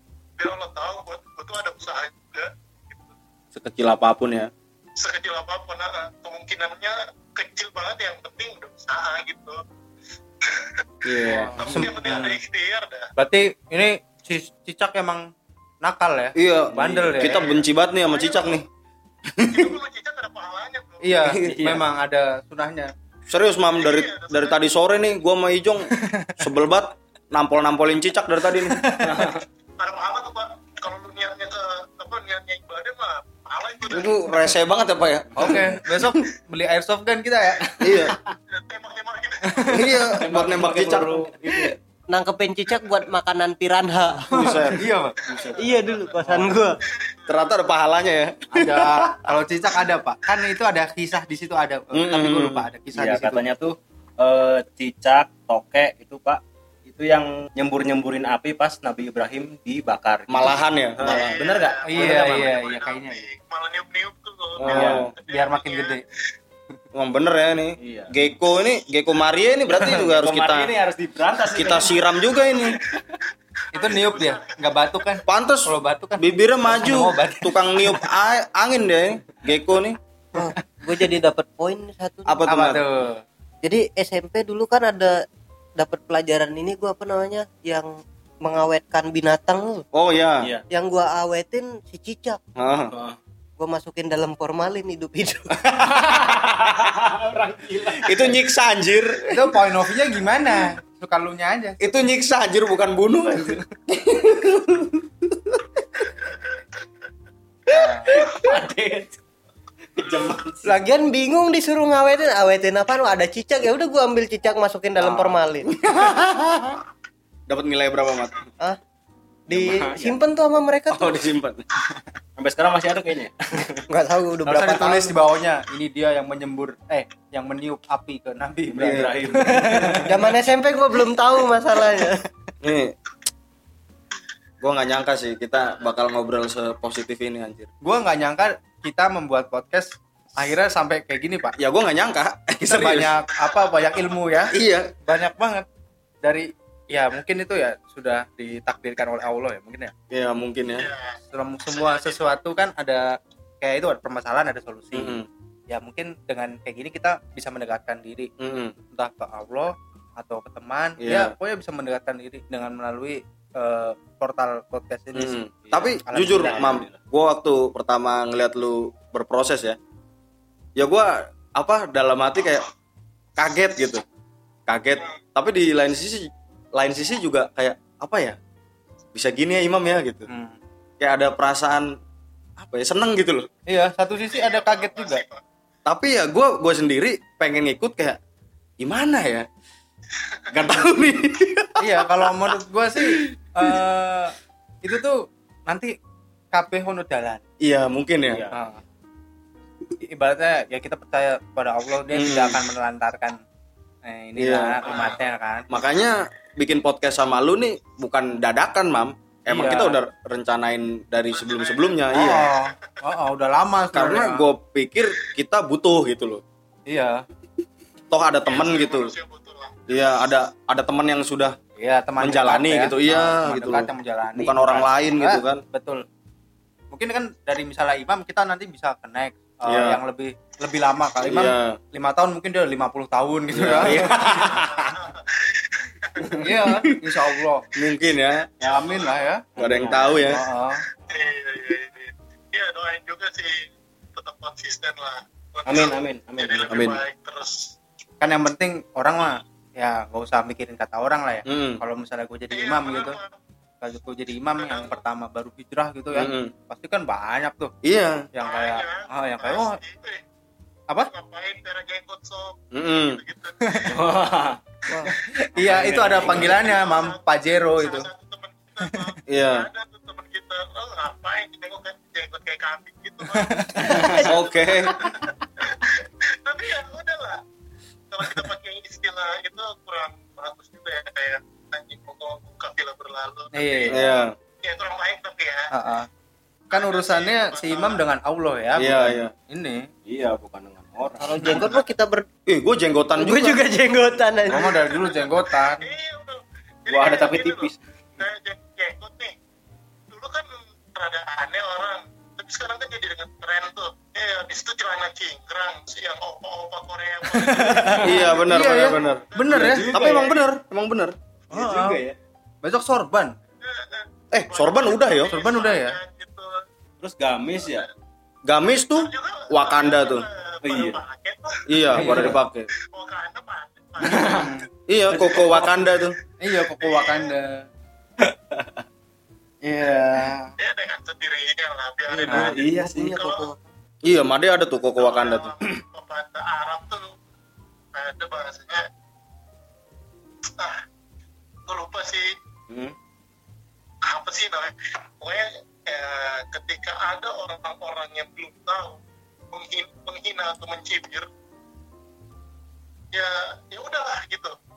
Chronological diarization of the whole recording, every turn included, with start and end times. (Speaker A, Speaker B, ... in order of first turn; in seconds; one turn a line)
Speaker A: 0.4-3.1
Speaker B: 3.5-4.5
Speaker A: 5.0-9.6
Speaker A: 10.4-10.8
Speaker B: 11.0-11.8
Speaker C: 11.3-12.4
Speaker A: 11.6-13.1
Speaker C: 13.2-15.3
Speaker C: 15.8-17.4
Speaker B: 16.4-18.6
Speaker D: 16.7-17.3
Speaker A: 17.2-18.6
Speaker B: 19.4-19.7
Speaker A: 19.5-21.2
Speaker C: 21.0-22.9
Speaker D: 21.2-21.8
Speaker B: 23.3-28.8
Speaker A: 23.7-24.6
Speaker C: 28.7-29.3
Speaker D: 29.0-29.4
Speaker A: 29.8-34.2
Speaker B: 33.9-35.5
Speaker C: 35.4-38.1
Speaker B: 37.8-38.1
Speaker A: 38.6-39.9
Speaker C: 39.4-40.0
Speaker B: 39.7-41.3
Speaker D: 40.1-41.8
Speaker E: 42.1-44.4
Speaker B: 44.3-44.8
Speaker C: 44.3-45.5
Speaker D: 45.3-46.7
Speaker A: 45.3-46.4
Speaker E: 45.7-46.7
Speaker A: 47.0-47.3
Speaker B: 47.3-49.3
Speaker C: 48.5-53.5
Speaker B: 51.9-52.6
Speaker D: 52.9-62.5
Speaker B: 60.3-61.3
Speaker A: 61.0-66.0
Speaker C: 61.8-63.2
Speaker D: 64.6-65.1
Speaker B: 64.7-65.1
Speaker C: 64.7-66.0
Speaker B: 66.9-70.7
Speaker D: 67.8-68.1
Speaker D: 69.8-72.2
Speaker B: 71.5-72.8
Speaker A: 72.3-73.0
Speaker A: 73.7-75.2
Speaker C: 73.7-78.0
Speaker B: 75.2-80.0
Speaker E: 80.3-82.4
Speaker B: 82.3-82.8
Speaker C: 82.5-83.2
Speaker E: 83.6-85.2
Speaker E: 85.8-89.8
Speaker B: 89.9-90.5
Speaker E: 90.7-92.4
Speaker B: 92.6-92.9
Speaker D: 92.9-93.2
Speaker E: 93.6-95.7
Speaker D: 96.0-98.4
Speaker B: 98.0-99.5
Speaker C: 99.3-101.9
Speaker B: 101.8-105.6
Speaker C: 107.7-108.1
Speaker D: 108.0-109.2
Speaker D: 109.9-110.7
Speaker E: 110.6-115.7
Speaker D: 115.1-115.3
Speaker B: 115.8-116.8
Speaker B: 117.5-118.3
Speaker E: 119.5-121.2
Speaker D: 119.5-120.2
Speaker B: 120.9-121.6
Speaker D: 122.4-123.9
Speaker E: 123.9-125.1
Speaker C: 124.5-130.1
Speaker D: 128.7-130.3
Speaker B: 128.8-129.1
Speaker E: 130.1-132.3
Speaker B: 132.6-132.9
Speaker B: 134.6-137.7
Speaker C: 137.8-141.6
Speaker B: 141.6-143.1
Speaker C: 142.6-145.7
Speaker B: 144.5-144.9
Speaker C: 146.2-149.9
Speaker B: 150.1-150.9
Speaker A: 150.7-151.2
Speaker C: 151.3-155.2
Speaker A: 151.7-152.3
Speaker B: 154.9-155.3
Speaker C: 155.7-158.3
Speaker B: 158.4-158.7
Speaker C: 158.9-165.4
Speaker B: 161.0-161.3
Speaker B: 165.1-169.8
Speaker D: 165.7-167.0
Speaker C: 166.0-166.8
Speaker B: 170.8-172.7
Speaker B: 173.4-174.0
Speaker B: 174.7-178.4
Speaker B: 179.1-180.2
Speaker C: 180.3-180.6
Speaker B: 181.0-181.9
Speaker B: 182.6-183.5
Speaker C: 183.7-185.2
Speaker A: 184.3-185.4
Speaker B: 185.9-188.2
Speaker B: 188.8-189.5
Speaker B: 190.5-192.1
Speaker C: 191.8-195.2
Speaker C: 196.5-197.4
Speaker B: 197.6-198.5
Speaker D: 198.3-198.6
Speaker C: 198.5-198.8
Speaker C: 200.0-203.4
Speaker B: 202.1-202.6
Speaker C: 204.0-205.7
Speaker B: 204.4-205.0
Speaker A: 204.9-205.1
Speaker B: 205.7-212.5
Speaker C: 209.5-209.9
Speaker A: 211.3-212.5
Speaker C: 212.1-214.5
Speaker B: 213.9-216.4
Speaker C: 216.9-217.2
Speaker B: 218.1-219.1
Speaker A: 218.4-219.8
Speaker B: 219.9-221.6
Speaker C: 221.8-226.0
Speaker B: 222.2-225.6
Speaker C: 226.9-234.9
Speaker B: 229.7-230.0
Speaker B: 231.2-231.8
Speaker B: 233.5-234.5
Speaker D: 233.7-234.8
Speaker A: 234.8-236.3
Speaker C: 236.4-237.6
Speaker B: 237.7-238.5
Speaker C: 238.6-239.4
Speaker A: 238.7-239.0
Speaker D: 239.6-240.4
Speaker B: 239.6-240.4
Speaker C: 240.2-240.8
Speaker A: 241.1-247.7
Speaker D: 245.7-246.9
Speaker B: 246.7-247.0
Speaker C: 248.2-253.2
Speaker B: 251.4-251.8
Speaker A: 252.5-253.3
Speaker C: 253.8-257.7
Speaker A: 254.6-255.0
Speaker B: 256.1-256.5
Speaker B: 257.8-258.2
Speaker C: 258.3-259.8
Speaker A: 258.4-260.2
Speaker A: 261.1-264.1
Speaker B: 262.7-263.2
Speaker C: 263.6-263.9
Speaker D: 263.9-266.6
Speaker C: 264.9-268.1
Speaker A: 265.9-277.4
Speaker B: 269.3-269.7
Speaker C: 273.3-273.9
Speaker D: 273.8-274.3
Speaker E: 274.1-274.3
Speaker B: 274.2-275.0
Speaker A: 278.1-284.1
Speaker C: 283.5-284.0
Speaker B: 283.9-284.3
Speaker A: 284.6-285.7
Speaker C: 285.7-286.1
Speaker C: 286.7-289.9
Speaker A: 286.7-288.0
Speaker B: 288.8-289.3
Speaker D: 290.1-291.8
Speaker E: 291.2-292.3
Speaker B: 292.5-293.6
Speaker E: 293.2-294.7
Speaker D: 293.4-294.4
Speaker C: 294.5-295.9
Speaker A: 294.6-299.3
Speaker D: 296.9-297.8
Speaker A: 300.1-308.1
Speaker C: 307.3-309.9
Speaker D: 307.8-308.1
Speaker B: 308.0-311.1
Speaker A: 308.6-310.4
Speaker D: 309.5-310.3
Speaker D: 311.5-312.1
Speaker C: 311.5-312.0
Speaker C: 312.6-313.3
Speaker A: 313.6-316.6
Speaker B: 314.3-315.3
Speaker C: 315.3-315.9
Speaker D: 317.0-317.9
Speaker B: 318.5-320.2
Speaker A: 318.9-321.6
Speaker D: 320.6-321.0
Speaker B: 321.7-322.7
Speaker D: 322.0-322.3
Speaker C: 322.0-322.3
Speaker A: 322.9-324.5
Speaker D: 324.0-324.5
Speaker C: 324.3-324.6
Speaker B: 324.9-326.1
Speaker D: 325.1-325.7
Speaker A: 325.5-326.1
Speaker C: 326.4-327.6
Speaker A: 326.8-327.3
Speaker D: 328.3-328.8
Speaker C: 329.6-330.5
Speaker A: 330.6-333.5
Speaker E: 332.1-333.6
Speaker D: 332.2-333.1
Speaker C: 332.3-332.6
Speaker B: 334.0-335.5
Speaker A: 335.0-337.1
Speaker A: 337.9-338.8
Speaker A: 340.6-340.8
Speaker A: 341.6-342.3
Speaker D: 342.7-342.9
Speaker A: 344.0-349.0
Speaker A: 349.5-351.3
Speaker A: 353.1-354.5